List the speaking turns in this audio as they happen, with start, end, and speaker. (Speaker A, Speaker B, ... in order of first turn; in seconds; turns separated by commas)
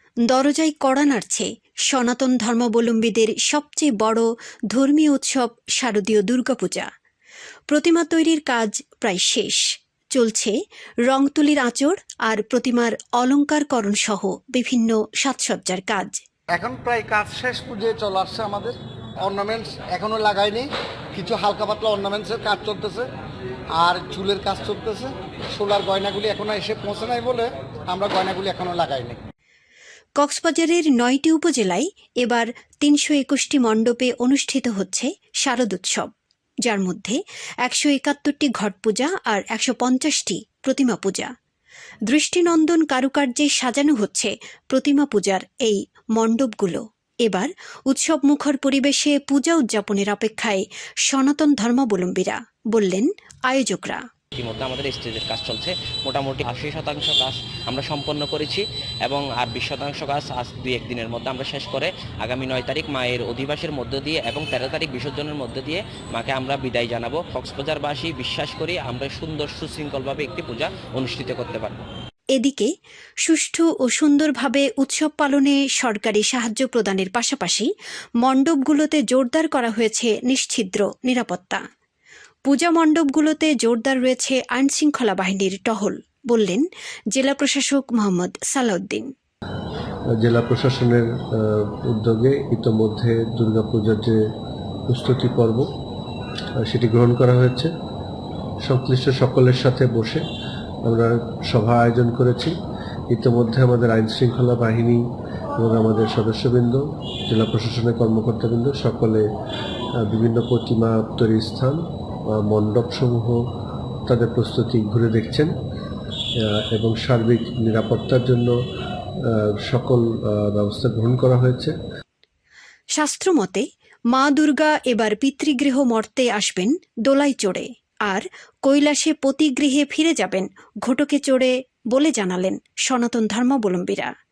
Speaker A: 0.3-6.9, Speaker A: 7.7-9.6, Speaker A: 10.2-10.6, Speaker A: 11.1-16.2, Speaker B: 16.6-23.1, Speaker B: 23.7-29.2, Speaker A: 30.2-36.1, Speaker A: 36.6-41.3, Speaker A: 42.1-54.0, Speaker C: 54.4-71.8, Speaker A: 72.4-72.7, Speaker A: 73.2-77.7, Speaker A: 78.2-81.6, Speaker A: 82.5-89.1, Speaker D: 90.2-94.2, Speaker D: 94.9-95.7, Speaker D: 96.6-97.7, Speaker D: 98.6-100.2, Speaker D: 100.8-102.5, Speaker D: 103.1-105.0, Speaker D: 105.6-109.3, Speaker D: 110.0-113.4, Speaker D: 114.1-115.5, Speaker D: 116.4-118.5, Speaker D: 119.3-121.8, Speaker A: 123.0-134.1